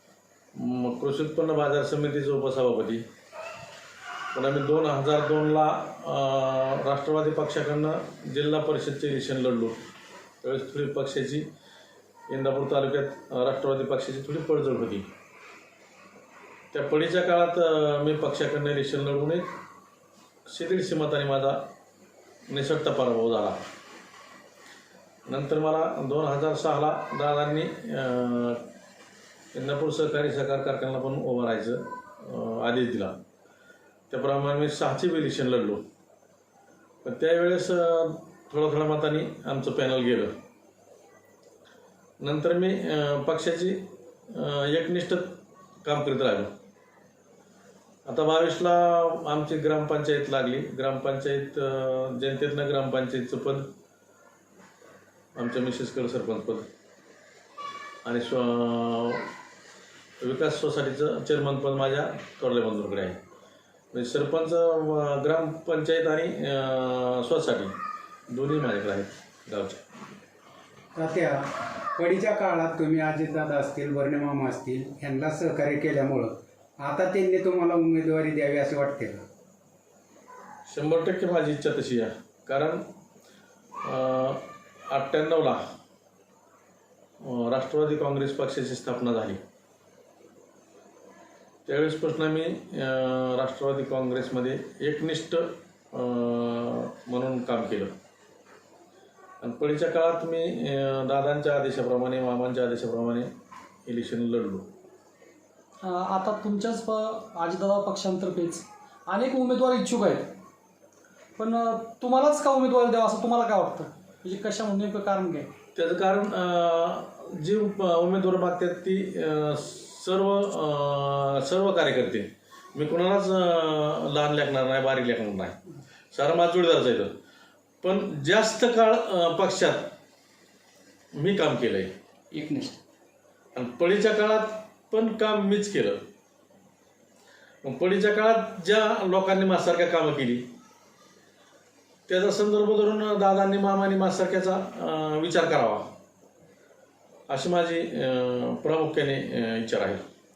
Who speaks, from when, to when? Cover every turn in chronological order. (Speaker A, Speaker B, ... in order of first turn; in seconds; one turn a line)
Speaker A: 0.6-3.0
Speaker A: 4.3-9.8
Speaker A: 10.4-11.4
Speaker A: 12.3-15.1
Speaker A: 16.7-19.5
Speaker A: 20.5-21.6
Speaker A: 22.5-23.6
Speaker A: 25.3-28.6
Speaker A: 29.5-33.2
Speaker A: 34.1-35.8
Speaker A: 37.0-40.3
Speaker A: 42.2-46.5
Speaker A: 48.1-53.7
Speaker A: 55.4-56.7
Speaker A: 58.0-59.3
Speaker A: 60.2-63.2
Speaker A: 63.9-67.7
Speaker A: 68.3-69.8
Speaker B: 71.0-71.4
Speaker B: 72.0-79.2
Speaker A: 80.7-82.8
Speaker A: 83.8-85.6
Speaker A: 87.2-89.4
Speaker A: 91.7-97.9
Speaker A: 99.4-103.3
Speaker A: 103.9-104.7
Speaker C: 105.8-110.3
Speaker C: 111.4-115.5
Speaker A: 115.8-125.6
Speaker A: 126.1-127.1
Speaker A: 127.8-129.9
Speaker A: 131.2-131.9
Speaker C: 132.3-132.8
Speaker A: 133.6-136.0
Speaker A: 137.6-140.5
Speaker A: 142.1-145.9
Speaker A: 147.3-150.0